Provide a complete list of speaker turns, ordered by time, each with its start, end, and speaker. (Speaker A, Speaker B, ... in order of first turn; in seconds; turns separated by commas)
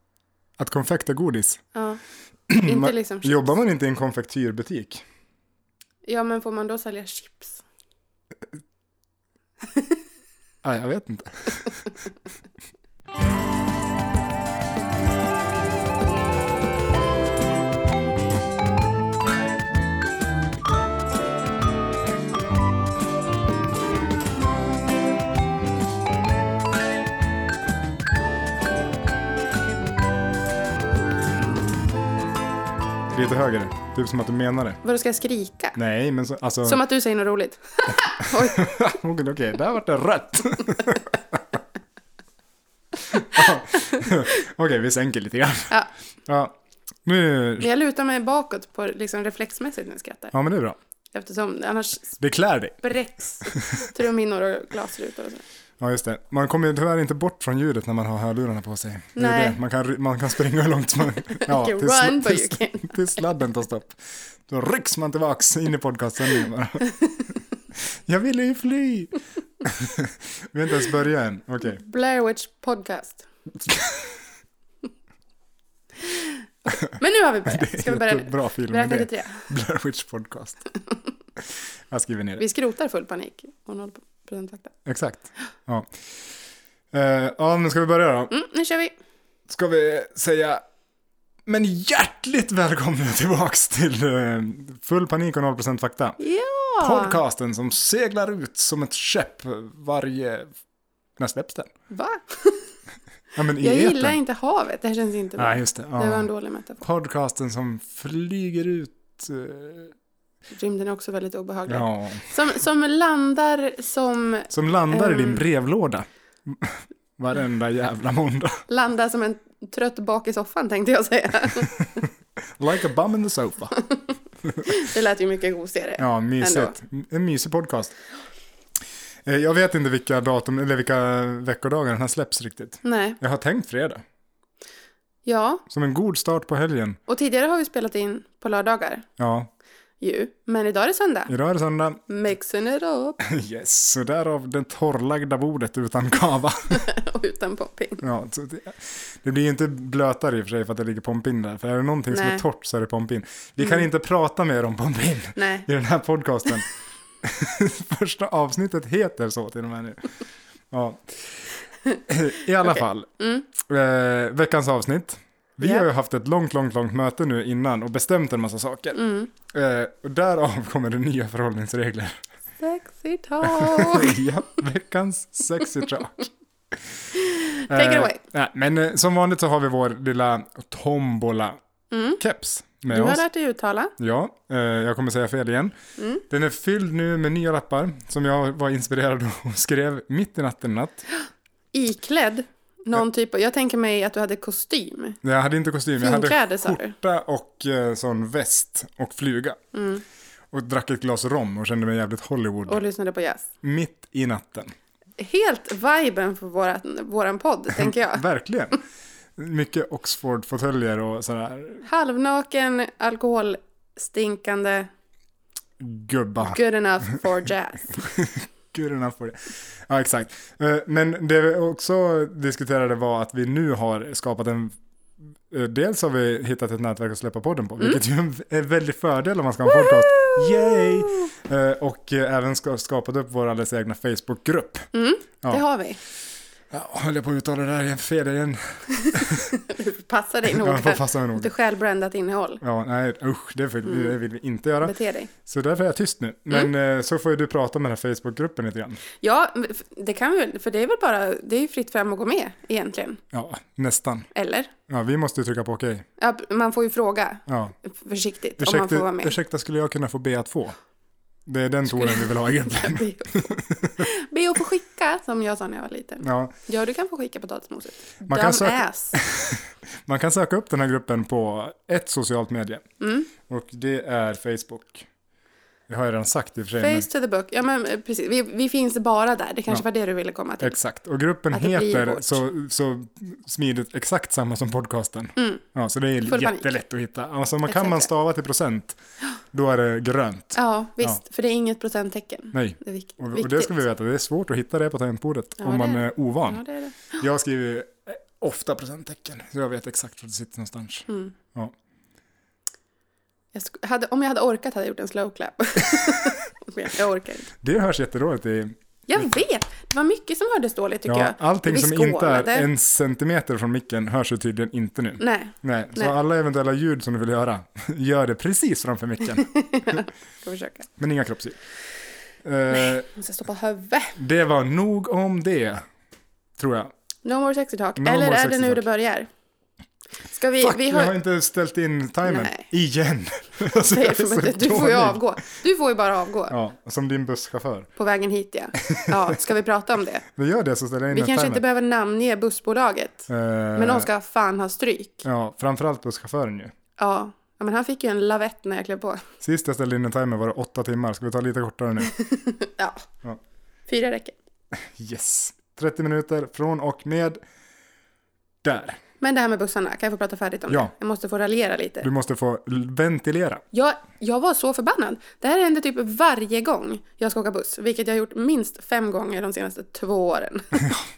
Speaker A: 0.6-1.6, Speaker B: 1.7-2.0, Speaker A: 2.5-5.0, Speaker B: 2.6-3.6, Speaker B: 6.0-7.6, Speaker B: 9.7-10.0, Speaker A: 10.6-11.7, Speaker A: 33.1-34.8, Speaker B: 34.8-35.8, Speaker A: 35.8-36.8, Speaker B: 36.6-38.8, Speaker A: 38.2-41.4, Speaker A: 43.0-47.7, Speaker B: 43.3-44.1, Speaker B: 47.6-50.3, Speaker A: 50.3-50.8, Speaker B: 51.1-52.2, Speaker A: 52.2-52.9, Speaker B: 52.8-55.4, Speaker A: 53.4-53.9, Speaker A: 55.8-66.9, Speaker B: 59.2-59.6, Speaker B: 61.4-63.2, Speaker B: 66.8-67.3, Speaker A: 67.8-71.8, Speaker B: 71.6-73.3, Speaker A: 73.6-74.1, Speaker B: 76.0-79.5, Speaker A: 77.5-80.6, Speaker A: 81.9-82.4, Speaker B: 82.4-84.7, Speaker A: 84.8-85.9, Speaker A: 86.9-88.3, Speaker B: 88.3-88.9, Speaker A: 89.5-90.6, Speaker A: 91.5-96.2, Speaker B: 96.2-97.2, Speaker A: 96.8-100.5, Speaker A: 101.2-101.7, Speaker B: 101.9-102.7, Speaker A: 103.4-104.2, Speaker B: 103.6-106.8, Speaker A: 105.4-106.3, Speaker A: 106.8-109.9, Speaker B: 110.5-115.4, Speaker A: 111.7-112.4, Speaker A: 114.5-118.6, Speaker B: 118.7-122.1, Speaker A: 122.6-123.8, Speaker A: 124.4-124.8, Speaker B: 124.6-126.8, Speaker A: 126.0-127.9, Speaker A: 129.2-134.0, Speaker B: 132.8-133.2, Speaker B: 135.2-135.6, Speaker A: 135.7-137.0, Speaker B: 137.1-139.1, Speaker A: 139.2-139.5, Speaker B: 140.0-141.3, Speaker A: 141.3-142.0, Speaker B: 142.1-143.2, Speaker A: 143.2-146.9, Speaker B: 146.7-148.0, Speaker A: 148.0-156.7, Speaker B: 152.1-152.4, Speaker B: 155.4-155.7, Speaker A: 157.2-160.2, Speaker A: 160.7-161.5, Speaker A: 162.1-163.1, Speaker B: 162.7-163.5, Speaker A: 163.6-172.2, Speaker B: 168.9-169.3, Speaker B: 172.6-174.3, Speaker A: 173.4-176.8, Speaker B: 177.1-178.2, Speaker A: 177.7-181.6, Speaker B: 181.9-182.2, Speaker A: 182.2-183.2, Speaker B: 182.9-183.9, Speaker A: 184.0-185.7, Speaker B: 186.0-186.2, Speaker A: 186.3-191.1, Speaker B: 191.1-195.2, Speaker A: 195.2-199.6, Speaker B: 196.0-196.9, Speaker B: 199.7-200.0, Speaker A: 200.5-202.8, Speaker B: 202.7-203.5, Speaker A: 203.6-204.7, Speaker B: 205.2-208.2, Speaker A: 207.7-208.8, Speaker A: 209.4-211.8, Speaker B: 211.8-214.9, Speaker A: 215.8-216.6, Speaker B: 216.4-218.1, Speaker A: 217.9-224.8, Speaker A: 225.5-234.9, Speaker B: 229.7-231.3, Speaker B: 234.9-236.0, Speaker A: 236.7-239.6, Speaker B: 238.9-242.6, Speaker A: 240.5-241.5, Speaker A: 242.6-249.0, Speaker B: 243.9-244.2, Speaker B: 244.8-245.3, Speaker B: 249.2-253.2, Speaker A: 253.3-254.3, Speaker B: 254.3-254.7, Speaker A: 254.9-256.1, Speaker B: 256.2-259.4, Speaker A: 257.5-257.8, Speaker A: 258.6-260.8, Speaker A: 261.5-264.1, Speaker B: 261.9-269.2, Speaker A: 266.2-266.5, Speaker A: 268.3-272.9, Speaker B: 273.0-273.3, Speaker A: 273.4-275.1, Speaker A: 275.9-277.1, Speaker B: 276.8-280.8, Speaker A: 280.6-289.0, Speaker B: 281.5-282.4, Speaker B: 285.4-285.6, Speaker B: 286.3-286.7, Speaker B: 287.7-288.1, Speaker A: 289.5-291.2, Speaker B: 290.6-293.8, Speaker A: 292.5-296.6, Speaker B: 295.6-297.2, Speaker A: 297.2-301.7, Speaker B: 301.1-301.4, Speaker B: 303.5-307.5, Speaker A: 306.0-306.3, Speaker A: 307.6-309.4, Speaker B: 309.1-312.7, Speaker A: 311.1-320.0, Speaker B: 315.2-316.1, Speaker B: 319.4-320.9, Speaker A: 321.0-321.6, Speaker A: 322.4-323.1, Speaker B: 322.7-324.2, Speaker A: 324.2-325.8, Speaker A: 326.6-326.9, Speaker B: 327.2-329.3, Speaker A: 328.0-328.9, Speaker B: 330.3-331.1, Speaker A: 330.6-335.3, Speaker B: 332.3-332.7, Speaker B: 333.8-336.6, Speaker A: 336.5-337.9, Speaker B: 338.0-340.2, Speaker A: 338.8-339.4, Speaker A: 340.3-341.6, Speaker B: 341.1-345.2, Speaker A: 343.3-344.1, Speaker A: 345.2-346.7, Speaker B: 347.0-349.3, Speaker A: 349.4-352.1, Speaker B: 352.0-353.1, Speaker B: 353.9-354.4, Speaker A: 354.9-357.4, Speaker A: 358.6-359.0, Speaker B: 359.2-362.1, Speaker A: 362.0-363.6, Speaker B: 363.7-371.0, Speaker A: 370.8-371.0